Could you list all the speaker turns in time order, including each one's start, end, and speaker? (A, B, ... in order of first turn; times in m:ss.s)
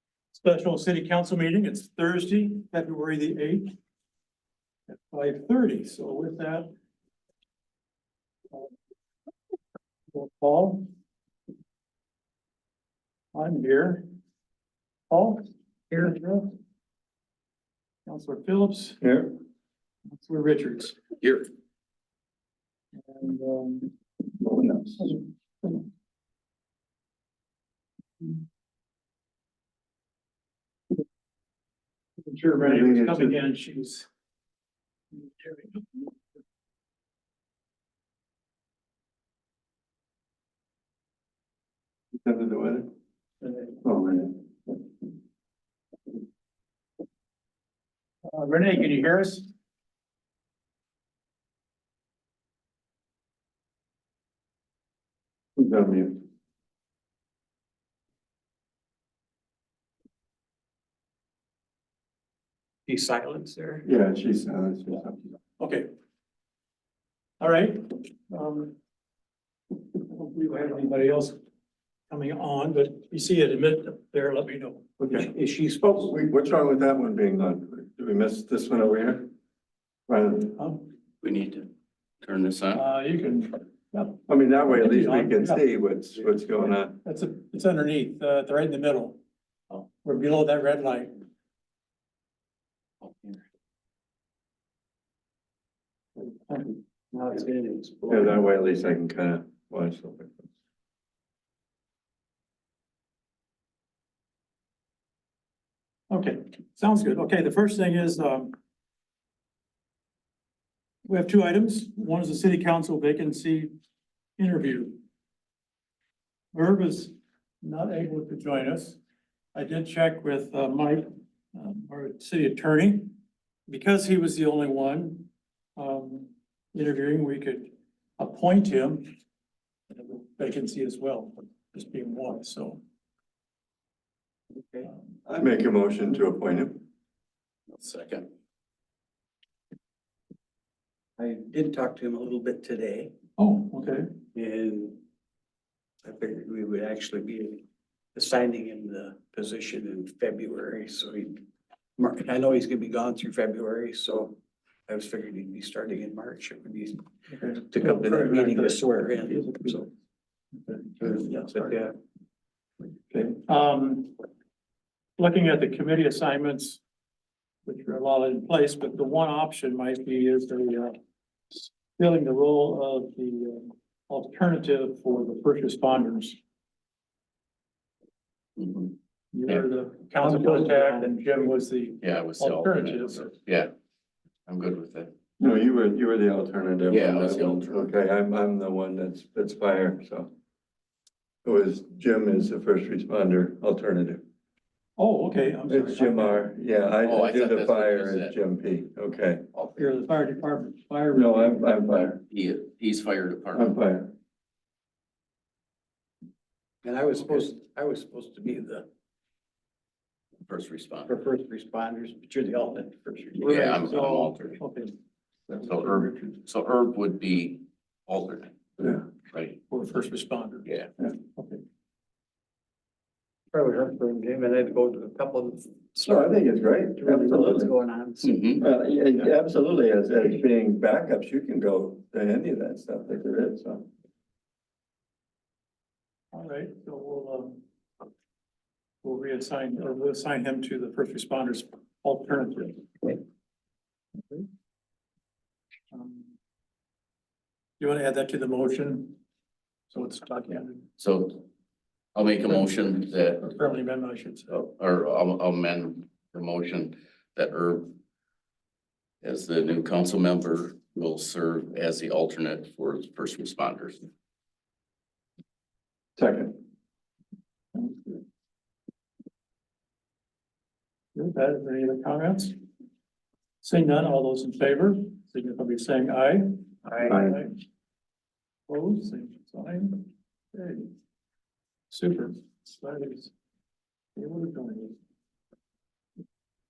0:00.3-0:03.8 A
0:04.9-0:06.7 A
0:10.1-0:10.9 A
0:13.3-0:14.0 A
0:15.1-0:15.4 A
0:16.0-0:16.5 A
0:18.1-0:19.0 A
0:19.0-0:19.3 B
0:20.1-0:21.0 A
0:21.2-0:21.5 C
0:23.1-0:23.9 A
0:24.4-0:25.2 B
0:32.2-0:34.1 A
0:32.6-0:33.4 B
0:35.2-0:36.1 A
0:42.1-0:42.9 B
0:43.8-0:44.4 B
0:48.2-0:49.5 A
0:55.6-0:56.2 B
1:02.9-1:03.8 D
1:03.8-1:05.3 B
1:05.6-1:05.9 A
1:07.4-1:08.8 A
1:10.0-1:11.4 A
1:12.1-1:14.9 A
1:15.0-1:15.3 B
1:15.1-1:16.1 D
1:16.0-1:19.3 B
1:20.1-1:20.6 B
1:20.6-1:20.8 A
1:21.2-1:21.7 C
1:22.2-1:22.8 C
1:22.7-1:25.6 A
1:24.3-1:27.0 B
1:27.0-1:29.2 A
1:29.7-1:31.2 A
1:36.2-1:36.8 A
1:37.1-1:38.4 D
1:38.1-1:40.5 B
1:46.1-1:48.6 A
1:51.0-1:53.7 A
1:54.4-1:55.0 A
1:56.5-1:59.0 A
1:59.6-2:03.2 A
2:03.7-2:09.1 A
2:09.9-2:12.8 A
2:14.6-2:14.9 D
2:15.3-2:16.8 B
2:17.8-2:18.3 C
2:21.2-2:23.1 D
2:23.4-2:24.1 A
2:24.3-2:25.0 D
2:26.0-2:27.6 D
2:28.2-2:31.4 D
2:32.0-2:37.0 D
2:37.3-2:39.7 A
2:37.7-2:39.9 D
2:40.6-2:41.7 A
2:41.0-2:42.0 D
2:43.3-2:44.2 A
2:45.2-2:46.8 A
2:47.7-2:51.0 A
2:51.5-2:56.4 A
2:58.6-2:58.9 C
2:59.3-3:03.3 A
3:00.2-3:01.1 D
3:02.0-3:03.7 C
3:04.5-3:05.1 C
3:05.4-3:10.3 B
3:06.9-3:07.8 C
3:11.4-3:14.2 B
3:15.0-3:16.5 A
3:15.7-3:19.5 B
3:17.0-3:18.4 C
3:19.6-3:19.9 C
3:19.8-3:21.7 A
3:21.1-3:22.2 B
3:22.3-3:23.7 C
3:23.5-3:24.1 B
3:26.8-3:28.9 D
3:30.5-3:31.2 C
3:31.1-3:33.4 D
3:33.4-3:34.6 C
3:33.4-3:34.9 A
3:35.5-3:36.4 A
3:35.6-3:38.6 C
3:38.8-3:39.1 B
3:39.3-3:39.6 C
3:39.7-3:40.7 A
3:41.3-3:41.6 A
3:43.5-3:46.4 D
3:46.0-3:47.7 B
3:47.0-3:48.7 D
3:48.2-3:48.6 C
3:48.6-3:53.9 B
3:56.3-3:57.6 A
3:59.0-4:02.9 A
4:05.9-4:06.3 A
4:07.8-4:09.2 A
4:09.9-4:10.9 A
4:11.0-4:11.5 C
4:12.2-4:13.4 C
4:13.2-4:14.6 A
4:14.5-4:17.9 C
4:19.2-4:24.1 C
4:26.2-4:26.6 B
4:27.7-4:28.2 A
4:31.2-4:32.6 A
4:33.6-4:37.5 A
4:36.9-4:37.2 D
4:37.1-4:37.4 B
4:38.7-4:40.9 A
4:41.9-4:43.3 A
4:44.2-4:45.0 A